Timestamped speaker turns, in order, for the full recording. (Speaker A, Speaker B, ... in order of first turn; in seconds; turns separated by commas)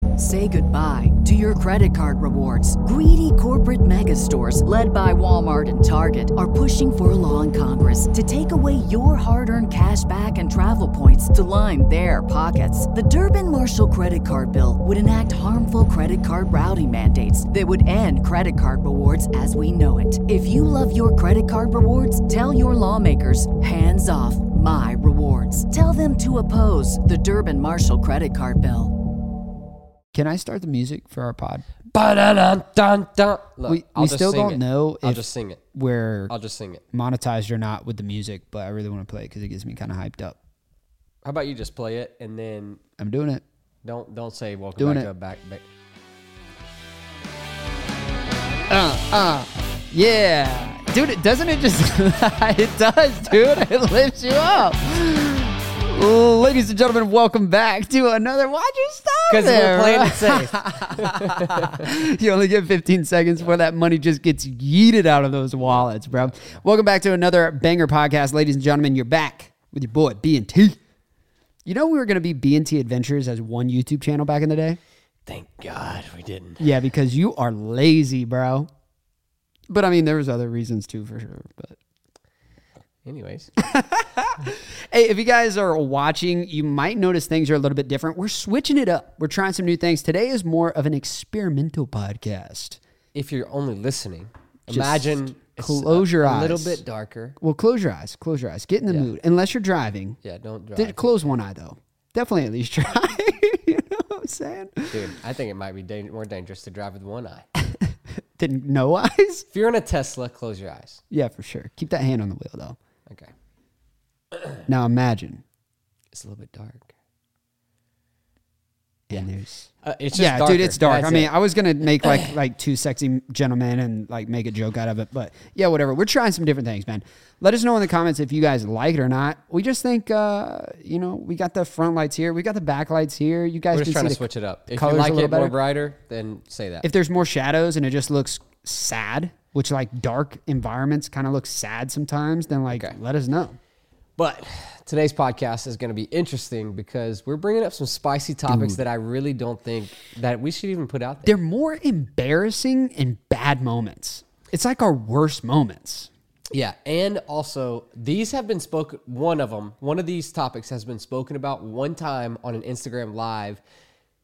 Speaker A: 0.2-28.9, Speaker B: 30.1-31.6, Speaker C: 31.9-35.6, Speaker B: 33.6-36.3, Speaker C: 36.3-36.8, Speaker B: 36.9-40.4, Speaker C: 41.2-42.8, Speaker B: 43.0-43.4, Speaker C: 43.8-45.6, Speaker B: 44.8-45.1, Speaker B: 48.7-70.8, Speaker C: 59.3-61.9, Speaker C: 65.7-66.6, Speaker B: 71.6-74.8, Speaker C: 75.3-76.7, Speaker B: 76.6-78.7, Speaker B: 79.7-81.8, Speaker C: 83.0-83.5, Speaker B: 83.6-92.8, Speaker C: 93.1-97.4, Speaker B: 94.7-96.8, Speaker B: 97.4-100.2, Speaker C: 100.2-101.3, Speaker B: 100.7-105.1, Speaker C: 104.9-107.4, Speaker B: 108.4-109.5, Speaker C: 109.5-111.0, Speaker B: 111.1-112.8, Speaker C: 114.3-114.6, Speaker B: 114.7-115.4, Speaker C: 116.1-116.9, Speaker B: 119.1-135.6, Speaker C: 119.8-121.3, Speaker C: 122.0-122.3, Speaker C: 133.7-136.9, Speaker B: 136.8-143.6, Speaker C: 144.2-151.3, Speaker B: 148.5-148.8, Speaker B: 151.2-156.1, Speaker C: 156.5-163.6